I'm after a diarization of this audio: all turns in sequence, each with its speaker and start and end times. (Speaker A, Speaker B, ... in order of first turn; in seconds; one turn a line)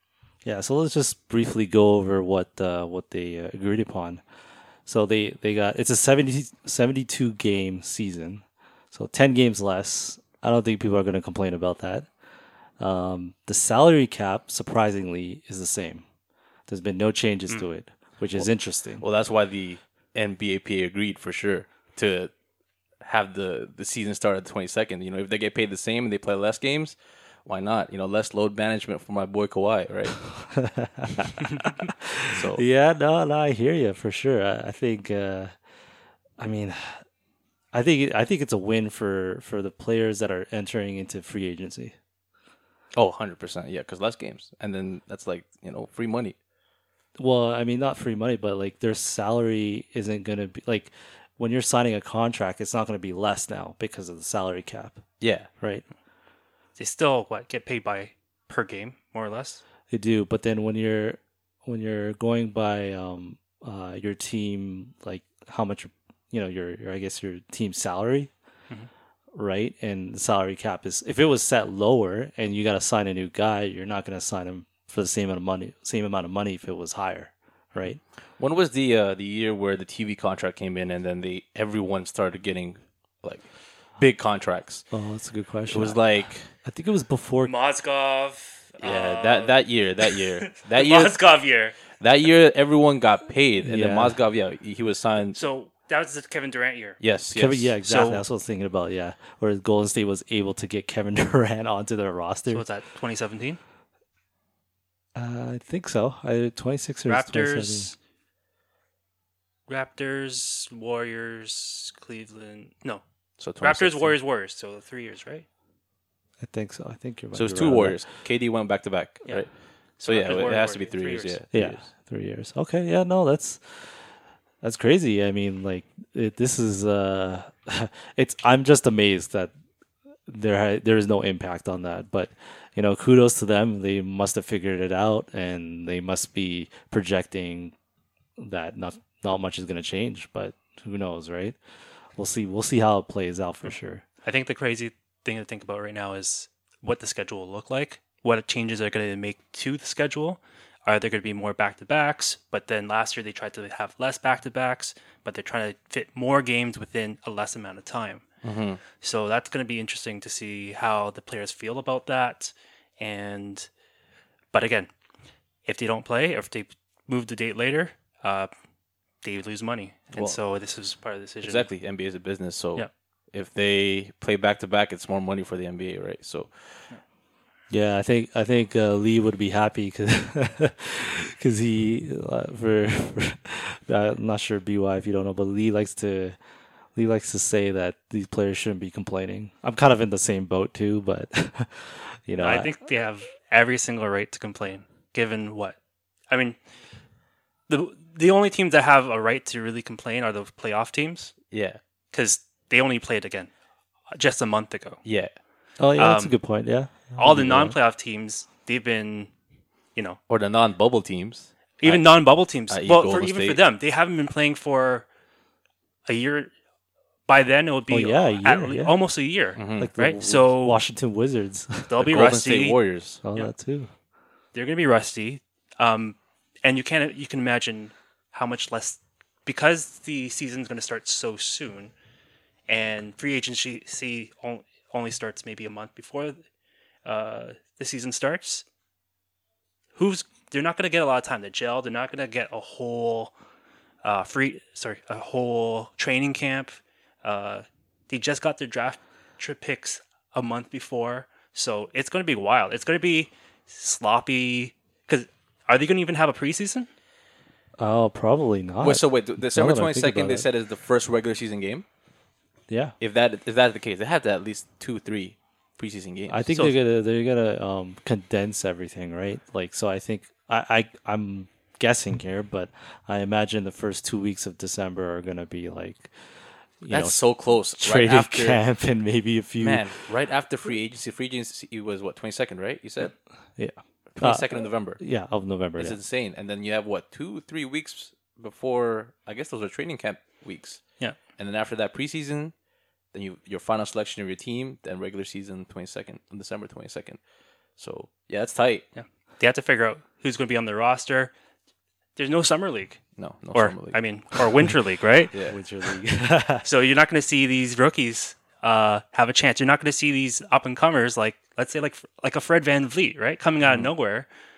Speaker A: 0.4-4.2
Speaker A: 4.8-12.1
Speaker A: 12.8-16.0
Speaker A: 16.7-19.0
Speaker B: 19.0-22.3
Speaker B: 23.0-30.3
Speaker A: 30.4-35.5
Speaker B: 32.2-32.6
Speaker A: 36.4-37.0
Speaker A: 37.7-42.0
Speaker B: 43.0-46.3
Speaker A: 47.2-55.0
Speaker B: 55.2-55.5
Speaker A: 55.6-55.8
Speaker C: 56.8-59.6
Speaker A: 59.9-68.3
Speaker A: 69.3-78.0
Speaker B: 78.4-83.5
Speaker B: 84.0-84.8
Speaker A: 84.9-86.0
Speaker B: 85.7-86.5
Speaker A: 86.6-87.5
Speaker C: 87.4-91.8
Speaker B: 88.8-91.2
Speaker B: 92.0-95.4
Speaker A: 93.6-94.2
Speaker C: 95.3-97.0
Speaker B: 97.0-97.7
Speaker A: 97.3-102.6
Speaker C: 97.8-98.2
Speaker C: 102.5-103.6
Speaker A: 105.1-107.9
Speaker C: 107.1-108.0
Speaker C: 109.7-113.0
Speaker B: 113.4-114.2
Speaker C: 113.6-115.4
Speaker A: 116.4-118.0
Speaker B: 117.3-119.5
Speaker C: 120.0-121.4
Speaker B: 120.0-121.8
Speaker A: 121.5-124.1
Speaker A: 124.6-129.5
Speaker A: 130.3-137.7
Speaker A: 138.4-141.6
Speaker A: 142.2-144.0
Speaker C: 144.2-158.2
Speaker B: 158.4-158.8
Speaker C: 159.0-163.7
Speaker C: 164.5-164.9
Speaker C: 165.7-168.5
Speaker C: 169.2-171.7
Speaker B: 170.1-170.4
Speaker B: 171.4-176.5
Speaker A: 177.7-186.3
Speaker A: 186.9-192.7
Speaker C: 192.4-195.8
Speaker C: 196.3-196.6
Speaker C: 197.7-201.3
Speaker B: 201.5-201.8
Speaker C: 202.1-203.5
Speaker C: 204.1-205.0
Speaker B: 205.0-205.3
Speaker A: 205.8-207.7
Speaker C: 206.0-206.4
Speaker C: 207.2-209.3
Speaker B: 210.3-213.6
Speaker C: 211.8-215.1
Speaker C: 216.1-216.5
Speaker C: 217.3-220.8
Speaker A: 217.9-218.9
Speaker B: 219.6-219.9
Speaker A: 219.8-222.0
Speaker C: 221.9-222.8
Speaker B: 222.0-223.2
Speaker A: 223.2-223.9
Speaker C: 224.5-231.9
Speaker C: 232.7-236.4
Speaker C: 237.0-238.6
Speaker C: 239.9-243.3
Speaker C: 244.0-256.9
Speaker A: 257.8-260.4
Speaker B: 258.8-261.8
Speaker A: 262.7-262.9
Speaker B: 263.0-266.4
Speaker A: 266.3-276.1
Speaker A: 276.8-277.2
Speaker B: 276.9-278.6
Speaker A: 277.8-280.0
Speaker B: 279.6-283.1
Speaker A: 283.6-286.0
Speaker B: 284.1-285.0
Speaker B: 285.8-290.8
Speaker B: 291.4-292.5
Speaker B: 293.1-297.2
Speaker B: 297.8-298.8
Speaker C: 298.9-301.3
Speaker C: 302.1-303.0
Speaker B: 303.2-304.0
Speaker C: 303.5-305.3
Speaker B: 305.3-305.6
Speaker A: 305.4-306.6
Speaker C: 306.6-314.3